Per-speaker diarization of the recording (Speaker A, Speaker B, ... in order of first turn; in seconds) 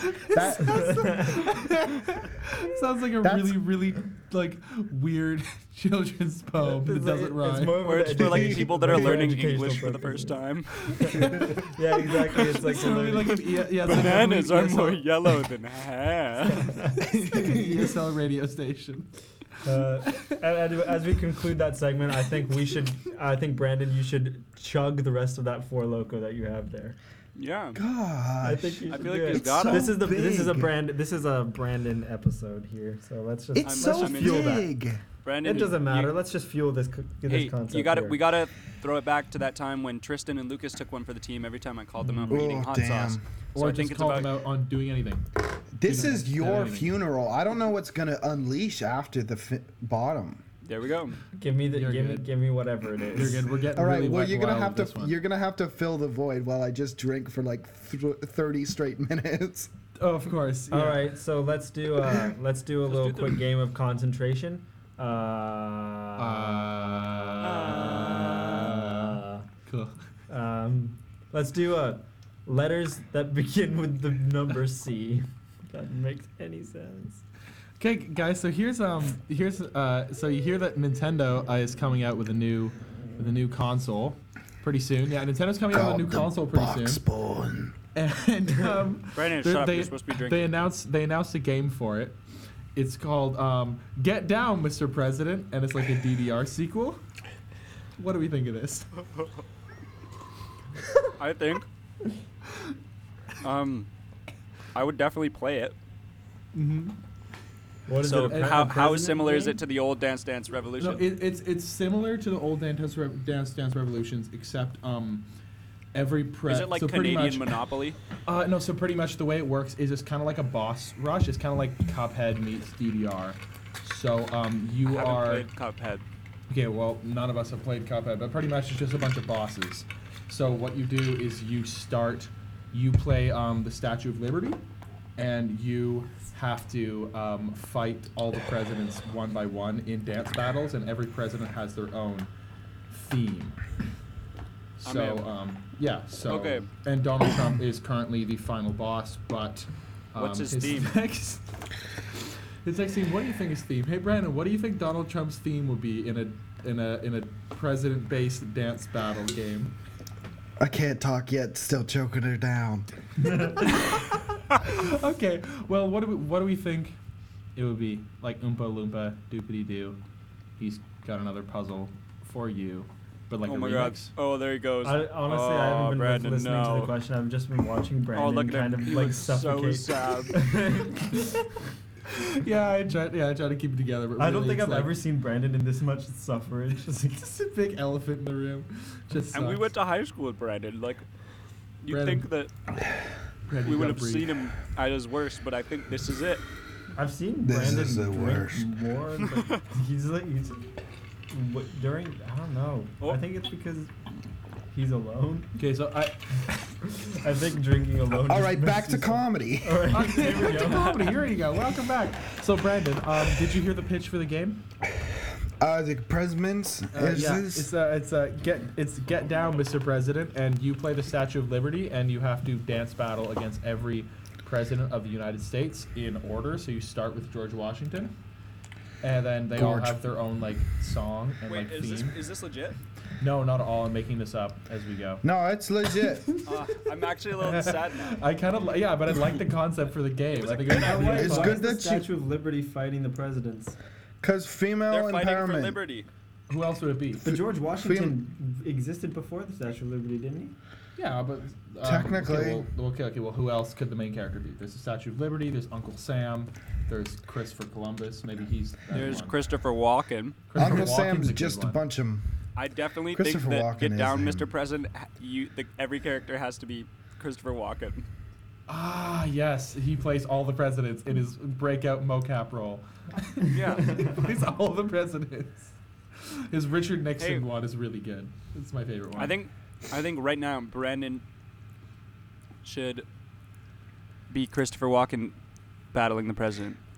Speaker A: 0.1-9.3, 10.8-11.7, 12.3-15.1, 16.9-19.1, 19.7-20.2, 43.5-45.3, 45.8-46.9, 51.7-52.3, 53.1-55.1, 60.0-61.1, 66.2-69.9, 77.8-87.0, 87.9-92.2, 92.7-97.0, 98.0-98.9, 106.5-107.0, 108.2-108.9, 110.8-115.3, 115.9-117.5, 118.2-125.5, 126.5-134.6, 135.2-142.3, 142.9-143.6, 144.8-159.8, 163.6-167.0, 167.6-170.0, 170.6-174.1, 182.1-184.9, 187.2-189.7, 191.9-192.3, 193.5-194.4, 205.6-206.2, 209.9-214.6, 216.9-228.1, 229.0-232.2, 233.2-235.2, 237.3-241.6, 246.5-247.3, 250.9-259.4, 260.5-261.8, 268.7-279.4
Speaker B: 0.3-1.4, 3.2-3.6, 8.2-8.6, 17.3-17.6, 27.7-30.7, 33.5-35.0, 42.3-43.2, 45.8-50.4, 53.7-59.7, 85.7-87.8, 160.6-162.9, 197.4-198.7, 208.1-210.4, 215.6-217.7, 229.5-230.0, 235.2-236.3, 241.1-242.1, 244.2-245.8, 247.2-248.2, 251.8-252.7, 260.6-262.2, 263.1-264.5
Speaker C: 0.6-1.5, 6.6-10.3, 11.0-13.4, 19.6-26.9, 28.4-34.7, 35.4-38.2, 42.0-42.5, 51.4-53.5, 60.7-69.5, 70.3-77.2, 107.9-109.6, 174.8-181.5, 184.2-187.3, 196.9-200.7, 201.3-203.9, 204.7-205.5, 206.8-210.9, 240.7-243.8, 247.2-250.5
Speaker D: 7.8-11.2, 13.8-16.8, 27.4-27.8, 28.9-30.0, 33.6-34.6, 35.2-36.1, 37.3-44.3, 50.6-51.2, 62.8-63.4, 67.4-68.5, 89.1-90.6, 101.2-101.7, 103.4-103.9, 104.7-105.7, 108.0-111.1, 116.5-118.0, 124.8-126.0, 144.8-145.2, 146.3-146.7, 150.2-150.9, 173.4-176.9, 178.1-180.4, 189.3-191.0, 191.8-192.5, 193.6-196.4, 199.3-199.6, 210.5-211.1, 231.4-232.8, 236.4-238.2, 240.4-241.2, 244.9-246.1, 258.9-260.4, 262.6-268.0, 273.5-274.0, 277.2-277.4, 279.1-281.2, 282.6-283.0, 284.3-285.3, 285.9-286.8